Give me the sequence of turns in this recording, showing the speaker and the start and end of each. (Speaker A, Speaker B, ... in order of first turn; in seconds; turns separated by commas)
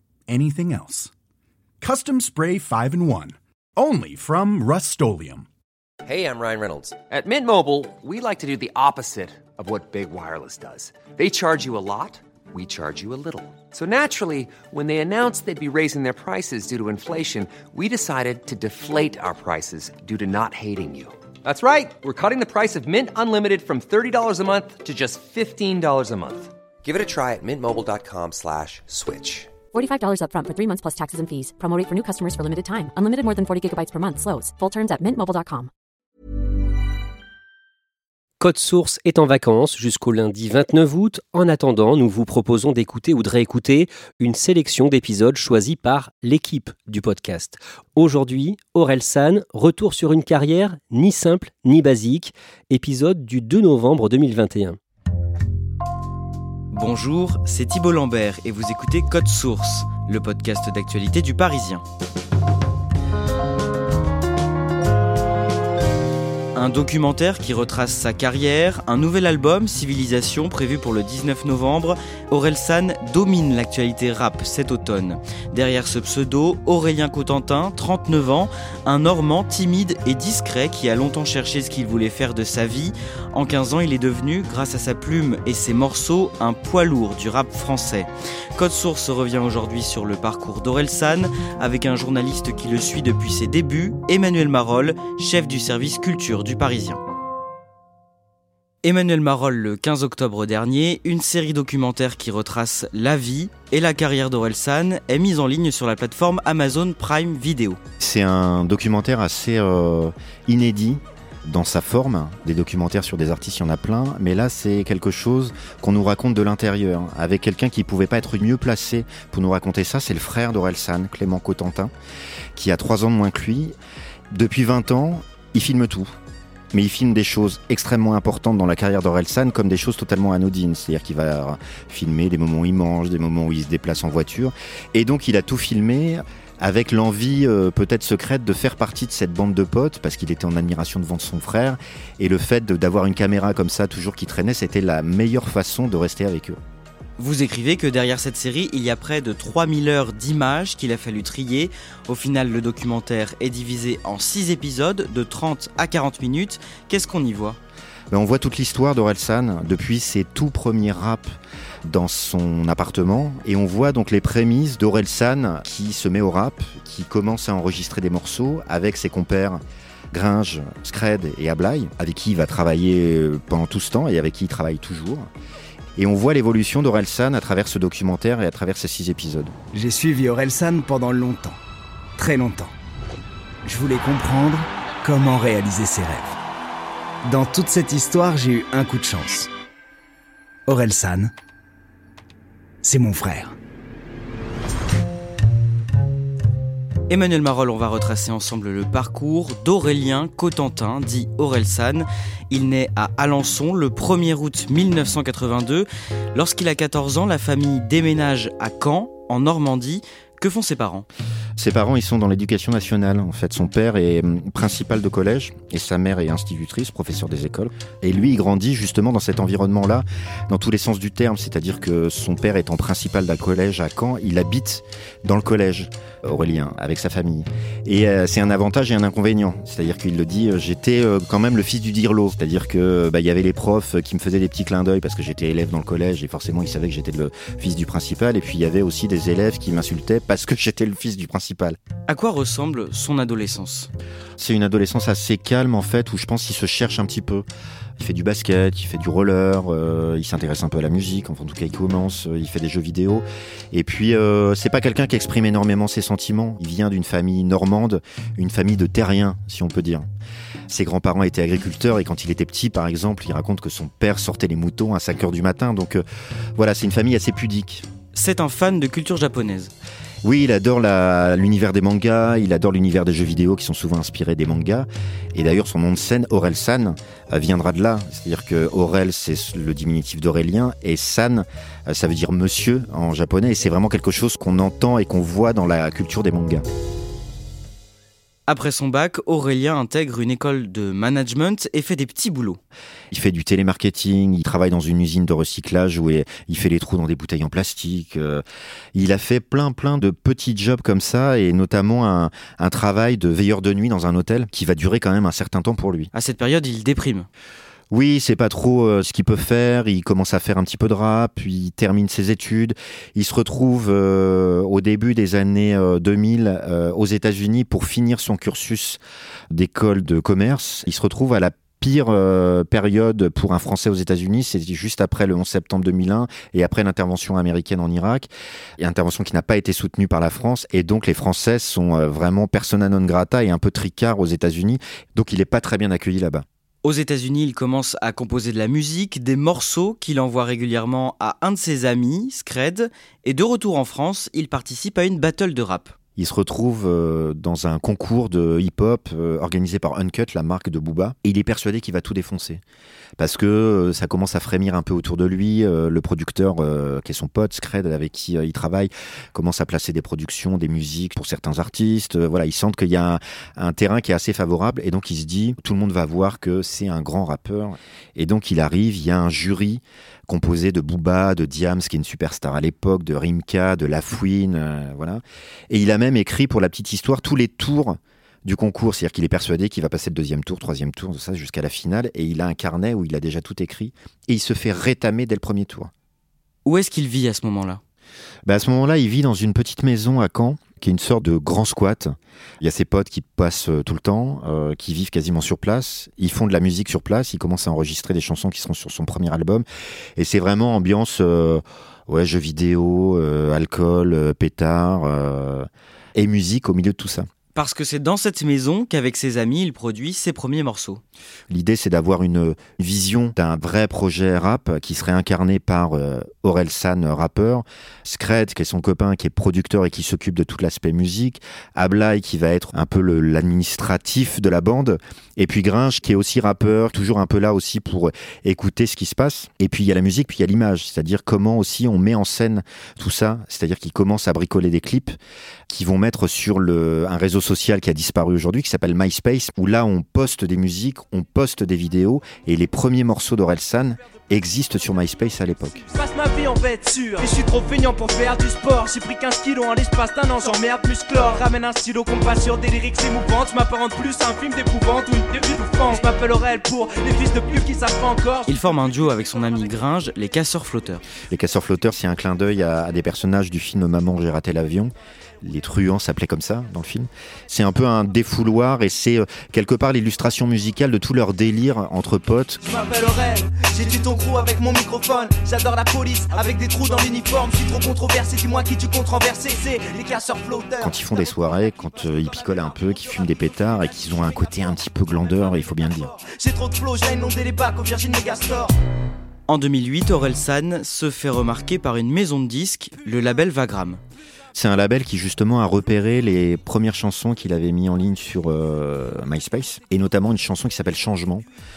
Speaker A: 0.3-1.1, Speaker A: 1.8-5.5, Speaker B: 6.0-29.5, Speaker C: 29.7-35.7, Speaker D: 38.4-54.8, Speaker E: 56.7-61.8, Speaker E: 66.5-97.0, Speaker E: 98.8-107.8, Speaker F: 108.0-121.9, Speaker F: 122.5-123.8, Speaker F: 124.3-126.2, Speaker F: 126.7-146.6, Speaker E: 147.2-157.6, Speaker F: 158.1-175.3, Speaker F: 176.0-179.5, Speaker G: 179.7-181.6, Speaker G: 182.2-182.8, Speaker G: 183.7-186.4, Speaker G: 187.2-189.5, Speaker G: 190.7-191.3, Speaker G: 192.8-193.6, Speaker E: 197.1-211.1, Speaker F: 211.6-241.8, Speaker E: 242.1-243.9, Speaker F: 244.4-247.5, Speaker F: 248.0-260.1, Speaker F: 260.7-266.0, Speaker F: 266.6-267.9, Speaker E: 268.1-269.7, Speaker F: 270.2-286.6, Speaker E: 288.5-292.6, Speaker F: 293.1-298.4, Speaker F: 298.9-306.1, Speaker E: 306.1-307.3, Speaker F: 307.9-336.4, Speaker E: 336.8-345.9, Speaker F: 346.2-352.6, Speaker F: 353.2-385.9, Speaker E: 386.6-387.8, Speaker F: 388.4-399.6, Speaker F: 400.2-407.3, Speaker E: 407.6-411.0, Speaker F: 411.5-435.2, Speaker F: 435.7-445.8, Speaker H: 445.9-458.5, Speaker E: 458.5-461.0, Speaker F: 461.3-472.6, Speaker H: 472.6-481.0, Speaker F: 480.8-486.1, Speaker H: 486.2-488.7, Speaker E: 489.5-494.0, Speaker F: 494.6-501.4